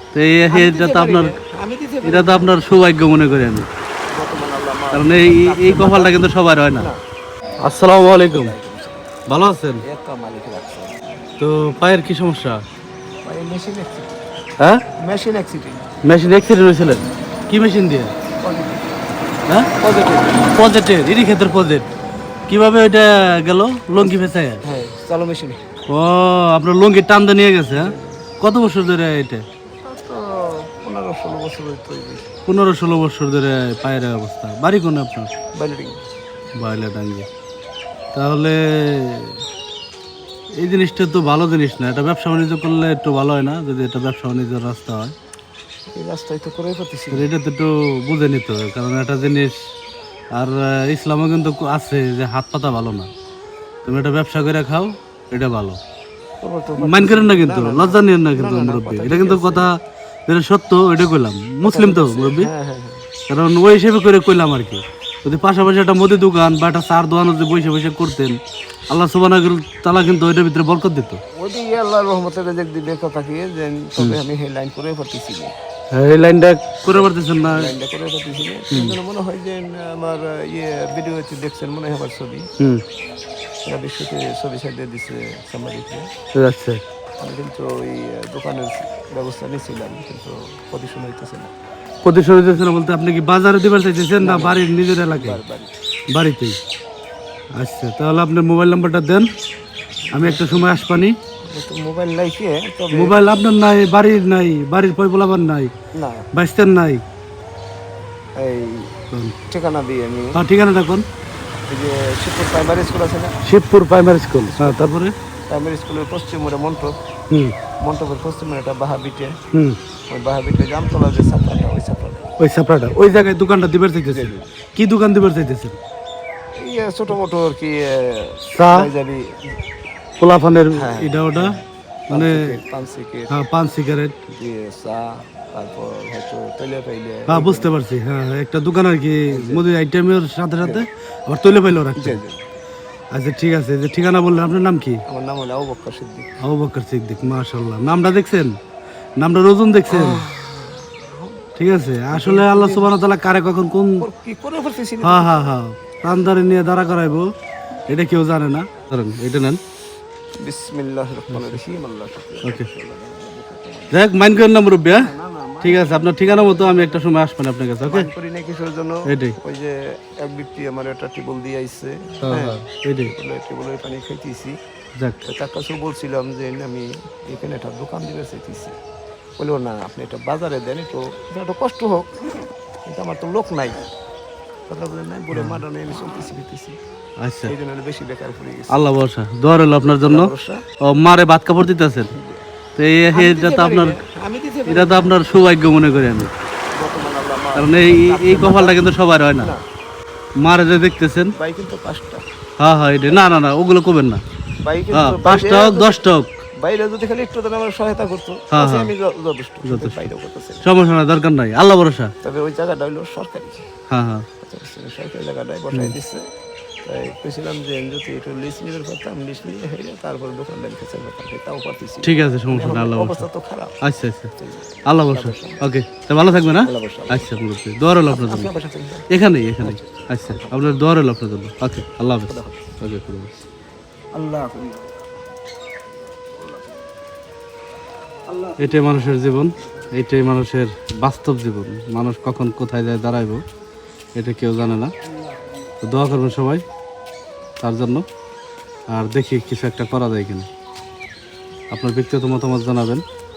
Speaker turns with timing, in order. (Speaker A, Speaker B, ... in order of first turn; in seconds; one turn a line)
Speaker A: 0.1-1.3
Speaker B: 0.5-2.5
Speaker A: 2.0-3.7
Speaker B: 4.1-6.2
Speaker A: 4.9-6.9
Speaker A: 7.6-8.5
Speaker B: 8.2-9.1
Speaker A: 9.3-9.8
Speaker B: 9.8-11.2
Speaker A: 11.4-12.6
Speaker B: 13.2-14.2
Speaker B: 15.0-15.8
Speaker A: 16.1-18.1
Speaker B: 18.4-19.1
Speaker B: 19.8-20.4
Speaker A: 20.4-21.9
Speaker A: 22.5-24.6
Speaker B: 24.0-25.6
Speaker A: 25.9-29.4
Speaker B: 27.7-28.2
Speaker B: 29.8-32.3
Speaker A: 32.5-35.3
Speaker B: 35.5-36.0
Speaker A: 36.6-37.3
Speaker A: 38.1-39.3
Speaker A: 40.6-45.1
Speaker B: 45.9-47.3
Speaker A: 47.1-49.5
Speaker A: 50.3-53.1
Speaker A: 53.8-55.8
Speaker B: 56.4-59.7
Speaker A: 56.8-59.7
Speaker A: 60.3-62.5
Speaker B: 61.6-63.0
Speaker A: 63.3-68.4
Speaker A: 68.9-71.2
Speaker B: 71.4-75.5
Speaker A: 75.9-77.7
Speaker B: 76.9-82.5
Speaker B: 83.7-86.1
Speaker A: 86.3-86.8
Speaker B: 87.2-91.5
Speaker A: 92.0-95.4
Speaker B: 94.2-95.7
Speaker A: 96.1-96.6
Speaker A: 97.6-99.3
Speaker B: 100.1-100.6
Speaker A: 100.1-101.1
Speaker B: 101.5-103.2
Speaker A: 102.9-105.7
Speaker B: 105.9-106.3
Speaker A: 106.3-107.0
Speaker B: 108.4-108.9
Speaker B: 109.5-110.4
Speaker A: 110.3-111.1
Speaker B: 111.7-113.3
Speaker A: 113.4-115.1
Speaker B: 114.5-114.9
Speaker B: 115.5-116.9
Speaker B: 117.8-119.4
Speaker B: 120.1-122.3
Speaker A: 122.4-125.8
Speaker B: 124.0-124.5
Speaker B: 126.6-129.4
Speaker A: 128.5-128.9
Speaker A: 130.2-131.6
Speaker B: 130.7-133.3
Speaker A: 132.1-132.6
Speaker A: 133.3-134.2
Speaker B: 134.3-137.7
Speaker A: 137.3-142.2
Speaker B: 139.3-139.6
Speaker B: 142.0-142.4
Speaker A: 143.1-145.0
Speaker B: 145.1-146.3
Speaker A: 146.4-148.6
Speaker A: 149.2-150.2
Speaker B: 149.9-151.4
Speaker A: 151.6-154.0
Speaker B: 152.1-152.9
Speaker B: 154.0-155.5
Speaker A: 155.0-157.2
Speaker A: 157.9-159.6
Speaker B: 160.4-164.0
Speaker A: 161.3-161.6
Speaker A: 163.9-165.1
Speaker B: 165.0-167.1
Speaker A: 165.6-168.1
Speaker B: 167.8-174.5
Speaker A: 169.1-169.3
Speaker A: 172.2-173.1
Speaker B: 175.2-178.8
Speaker B: 179.4-182.1
Speaker B: 182.8-183.8
Speaker B: 184.7-186.8
Speaker A: 185.3-185.6
Speaker A: 187.2-187.5
Speaker B: 187.4-188.8
Speaker A: 188.7-190.3
Speaker B: 190.0-190.6
Speaker A: 190.8-192.1
Speaker B: 192.1-192.4
Speaker A: 192.8-194.0
Speaker B: 193.1-195.2
Speaker A: 194.7-196.3
Speaker B: 196.8-198.8
Speaker A: 197.6-199.5
Speaker A: 200.4-201.3
Speaker B: 201.3-202.2
Speaker A: 202.6-204.2
Speaker B: 204.6-206.1
Speaker A: 204.9-206.3
Speaker B: 206.6-210.7
Speaker A: 208.5-208.9
Speaker A: 209.7-210.1
Speaker A: 210.6-212.1
Speaker B: 212.2-213.7
Speaker A: 213.9-214.2
Speaker B: 214.4-216.3
Speaker B: 216.8-223.8
Speaker A: 222.0-223.2
Speaker A: 223.8-224.3
Speaker B: 224.4-225.7
Speaker A: 224.9-228.5
Speaker B: 226.6-227.4
Speaker B: 228.1-230.7
Speaker A: 229.1-233.4
Speaker B: 232.3-232.7
Speaker B: 234.1-235.0
Speaker B: 238.3-238.7
Speaker A: 238.6-243.4
Speaker A: 244.2-244.9
Speaker A: 245.8-246.6
Speaker A: 247.6-248.0
Speaker A: 248.9-250.5
Speaker A: 251.7-253.0